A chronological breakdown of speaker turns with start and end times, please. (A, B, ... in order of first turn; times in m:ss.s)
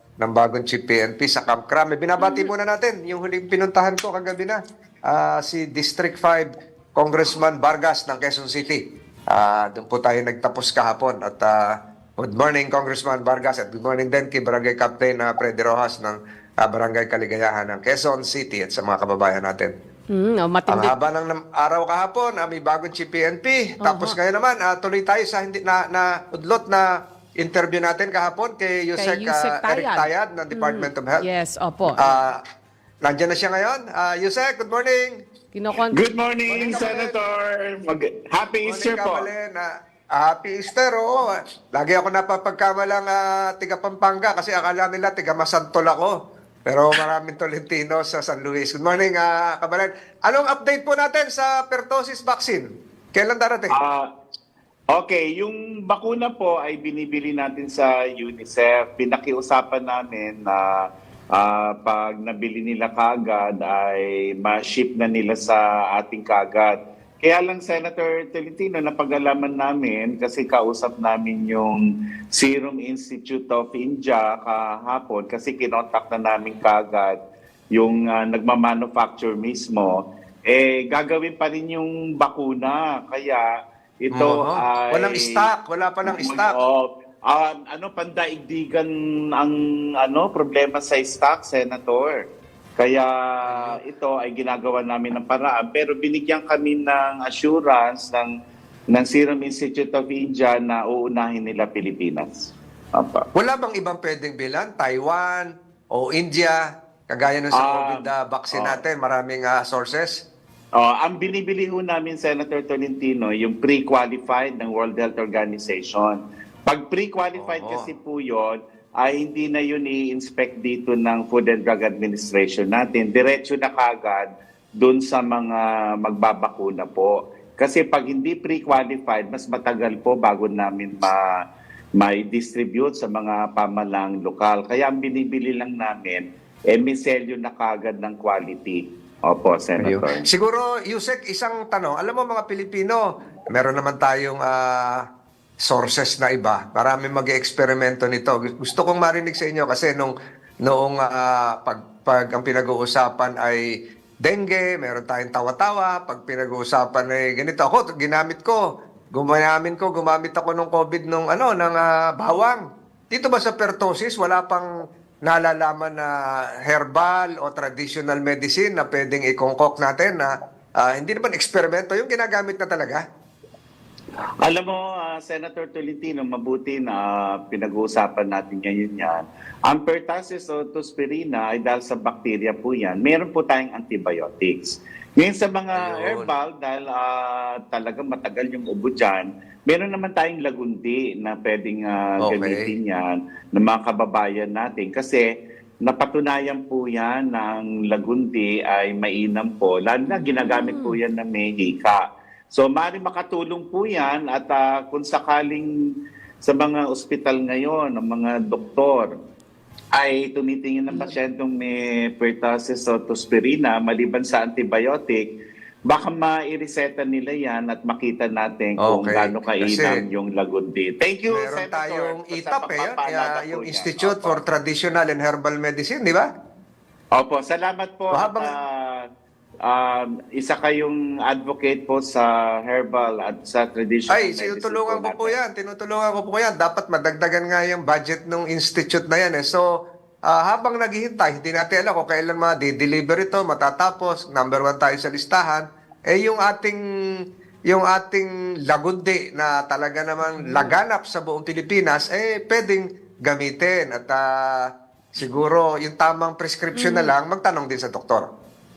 0:00.2-0:08.8 A
0:02.2-0:02.5 B
0:09.3-0:11.6 A
0:12.2-0:19.7 A
0:20.1-0:21.0 B
0:20.7-0:26.9 A
0:23.8-0:24.2 B
0:27.4-0:31.2 A
0:29.0-0:32.2 B
0:32.0-0:32.4 A
0:33.0-0:35.2 A
0:35.5-0:36.0 B
0:35.9-0:39.3 C
0:36.5-0:37.2 A
0:38.6-0:46.1 A
0:46.7-0:53.8 A
0:53.7-0:54.1 C
0:54.9-1:17.2 C
1:17.8-1:23.5 C
1:24.0-1:25.5 C
1:24.1-1:26.6 A
1:26.1-1:32.2 C
1:32.8-1:38.3 C
1:33.5-1:33.8 A
1:38.9-1:43.3 C
1:43.4-1:50.2 A
1:47.5-1:48.8 C
1:50.8-2:04.3 C
1:57.4-1:57.9 A
2:04.8-2:11.2 C
2:12.0-2:20.2 C
2:19.8-2:25.0 A
2:25.7-2:30.1 A
2:30.6-2:33.6 A
2:34.2-2:38.6 A
2:39.2-2:44.7 A
2:45.3-2:46.1 A
2:46.7-2:50.3 A
2:50.8-2:53.0 A
2:54.4-3:15.3 C
3:05.8-3:06.3 A
3:12.2-3:12.7 A
3:15.8-3:25.7 C
3:20.3-3:21.0 B
3:26.4-3:29.1 C
3:29.9-3:35.2 C
3:35.9-3:44.4 C
3:38.8-3:40.0 A
3:41.3-3:46.3 A
3:47.2-3:49.0 C
3:48.1-3:48.5 A
3:49.7-3:55.4 C
3:54.1-3:59.6 A
4:00.3-4:06.8 A
4:07.7-4:14.2 A
4:10.3-4:10.7 B
4:15.2-4:18.3 A
4:16.8-4:17.1 B